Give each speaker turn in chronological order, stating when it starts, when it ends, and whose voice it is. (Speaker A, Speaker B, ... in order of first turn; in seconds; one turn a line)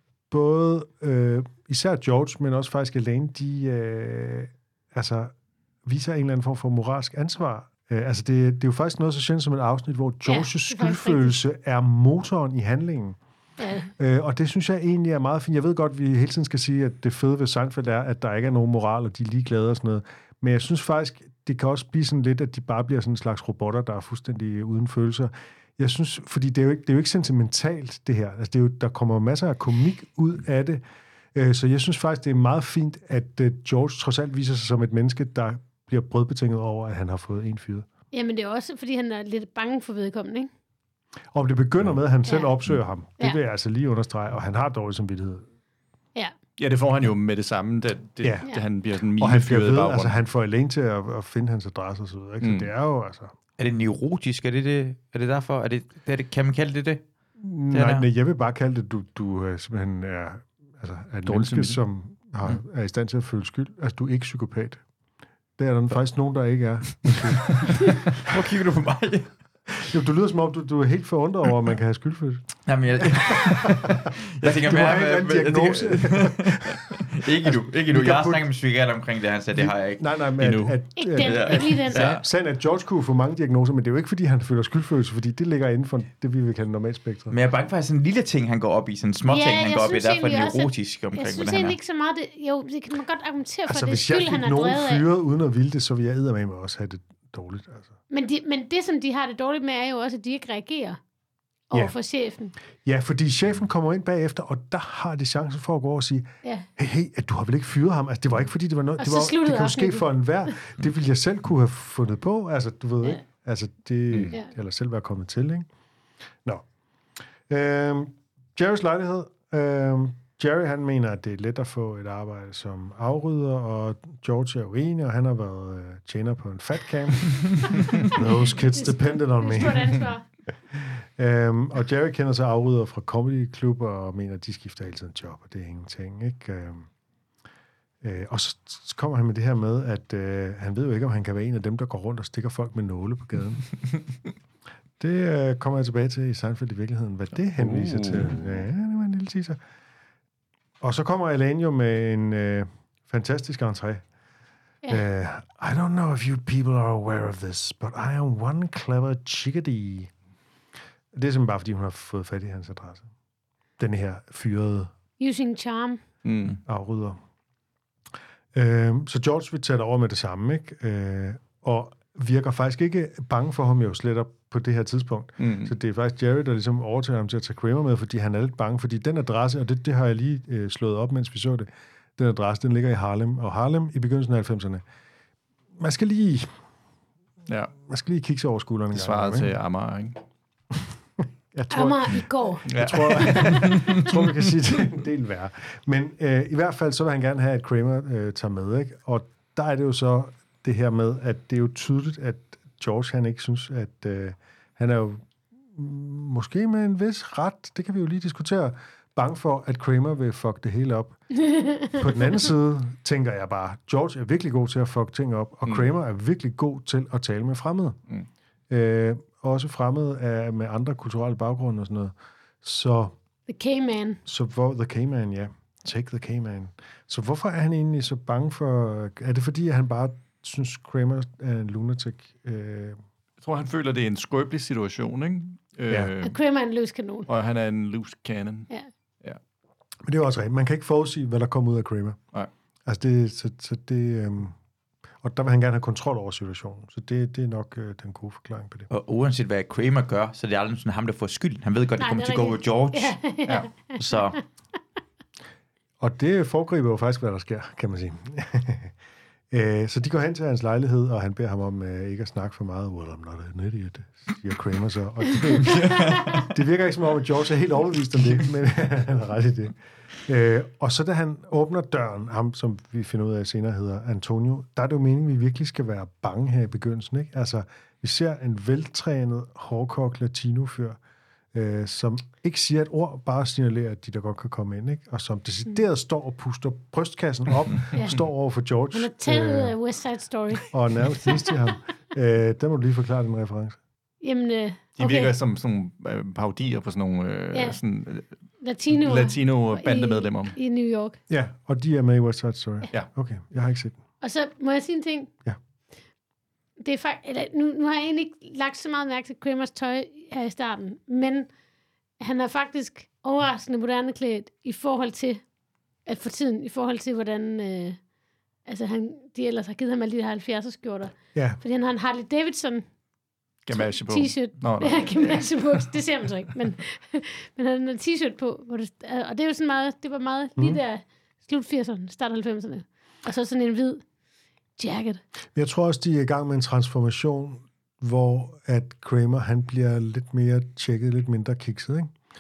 Speaker A: 0.3-13.2
Speaker B: 10.2-11.4
Speaker B: 13.6-13.9
Speaker A: 14.0-30.8
Speaker A: 31.3-37.9
Speaker B: 38.1-40.5
Speaker A: 41.3-45.5
Speaker B: 42.2-42.5
Speaker C: 46.6-50.2
Speaker A: 48.2-53.3
Speaker C: 52.4-52.7
Speaker D: 53.6-57.0
Speaker A: 57.4-64.8
Speaker D: 57.7-58.0
Speaker C: 61.2-61.8
Speaker A: 65.6-68.1
Speaker D: 68.2-69.3
Speaker A: 69.8-73.8
Speaker D: 72.7-80.0
Speaker A: 74.4-78.5
Speaker A: 79.5-87.4
Speaker C: 80.4-80.8
Speaker B: 81.0-82.0
Speaker D: 81.2-82.2
Speaker D: 87.3-91.8
Speaker B: 89.3-95.0
Speaker A: 93.7-97.9
Speaker B: 98.1-101.0
Speaker B: 101.7-102.5
Speaker A: 102.8-115.7
Speaker B: 109.0-110.5
Speaker A: 117.5-130.2
Speaker B: 128.6-130.2
Speaker A: 130.7-136.9
Speaker A: 138.0-143.8
Speaker A: 145.0-149.6
Speaker C: 147.4-148.6
Speaker A: 150.8-154.0
Speaker A: 154.9-160.1
Speaker A: 161.1-163.1
Speaker A: 163.8-164.9
Speaker B: 165.2-166.0
Speaker C: 166.2-166.6
Speaker A: 166.6-167.2
Speaker A: 168.5-184.8
Speaker C: 175.4-175.7
Speaker A: 185.8-186.6
Speaker C: 187.5-187.7
Speaker A: 187.8-189.5
Speaker C: 188.9-190.2
Speaker A: 190.8-211.3
Speaker B: 191.7-192.7
Speaker C: 192.7-194.0
Speaker B: 211.5-211.8
Speaker A: 211.8-218.0
Speaker A: 218.7-223.2
Speaker B: 223.5-224.2
Speaker A: 224.2-233.0
Speaker C: 233.4-236.4
Speaker B: 236.2-237.3
Speaker C: 237.3-238.7
Speaker A: 240.1-242.2
Speaker A: 242.8-244.6
Speaker A: 245.2-248.9
Speaker D: 248.9-253.2
Speaker B: 252.0-254.4
Speaker D: 253.9-254.4
Speaker A: 256.0-258.9
Speaker A: 259.5-281.0
Speaker B: 265.8-266.4
Speaker A: 281.5-289.8
Speaker B: 287.9-288.2
Speaker B: 288.9-291.3
Speaker A: 290.7-293.8
Speaker B: 294.2-295.3
Speaker C: 294.9-300.6
Speaker B: 297.5-297.8
Speaker B: 298.6-301.2
Speaker A: 301.3-304.0
Speaker B: 304.2-305.3
Speaker B: 306.8-311.5
Speaker B: 312.2-315.4
Speaker B: 316.0-318.0
Speaker B: 318.6-322.9
Speaker A: 321.3-321.6
Speaker C: 323.6-325.8
Speaker B: 323.7-334.0
Speaker B: 334.8-335.2
Speaker A: 335.5-342.1